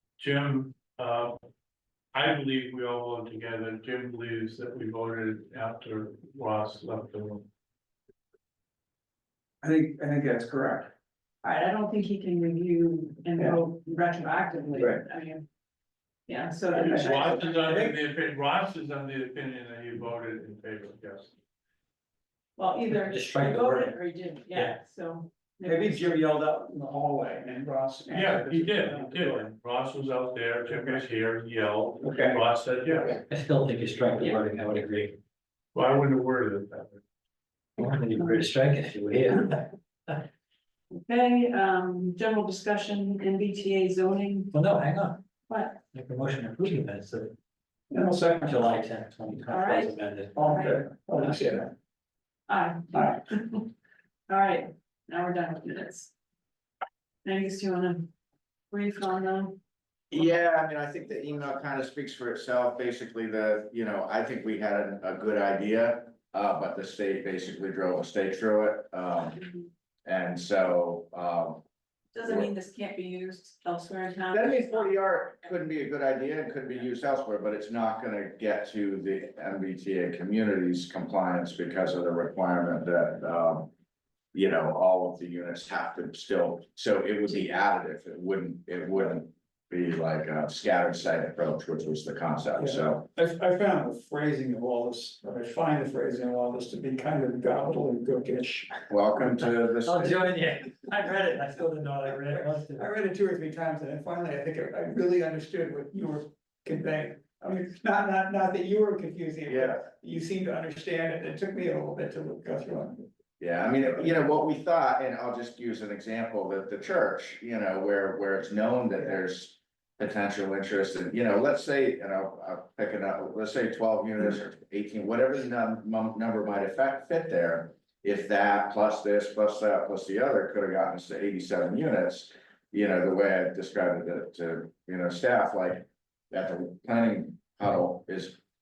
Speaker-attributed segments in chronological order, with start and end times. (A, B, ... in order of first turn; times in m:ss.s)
0:00.2-0:01.4 A
0:02.1-0:07.5 A
0:09.6-0:10.9 B
0:11.4-0:15.4 C
0:16.3-0:17.5 C
0:16.7-0:18.0 B
0:16.8-0:21.3 A
0:22.6-0:26.2 C
0:22.9-0:24.0 D
0:25.6-0:29.5 B
0:28.1-0:33.2 A
0:30.7-0:31.0 B
0:32.0-0:32.4 B
0:33.2-0:35.2 D
0:35.7-0:37.0 A
0:37.8-0:40.1 D
0:40.9-0:44.6 C
0:44.5-0:45.2 D
0:45.5-0:45.8 C
0:45.8-0:47.3 D
0:47.9-0:48.6 B
0:48.4-0:50.4 D
0:49.5-0:50.8 C
0:50.3-0:51.7 B
0:52.5-0:53.7 C
0:52.9-0:53.2 B
0:54.3-0:56.1 C
0:57.2-0:58.1 C
0:58.7-0:59.6 C
1:00.1-1:09.4 E
1:10.0-1:11.6 E
1:12.1-1:15.0 C
1:12.2-1:12.5 E
1:14.3-1:23.7 E
1:24.3-1:33.1 E
1:32.6-1:38.9 B
1:38.9-1:40.2 E
1:39.8-1:42.9 D
1:42.0-1:53.0 B
1:49.5-1:49.8 E
1:53.4-2:18.4 E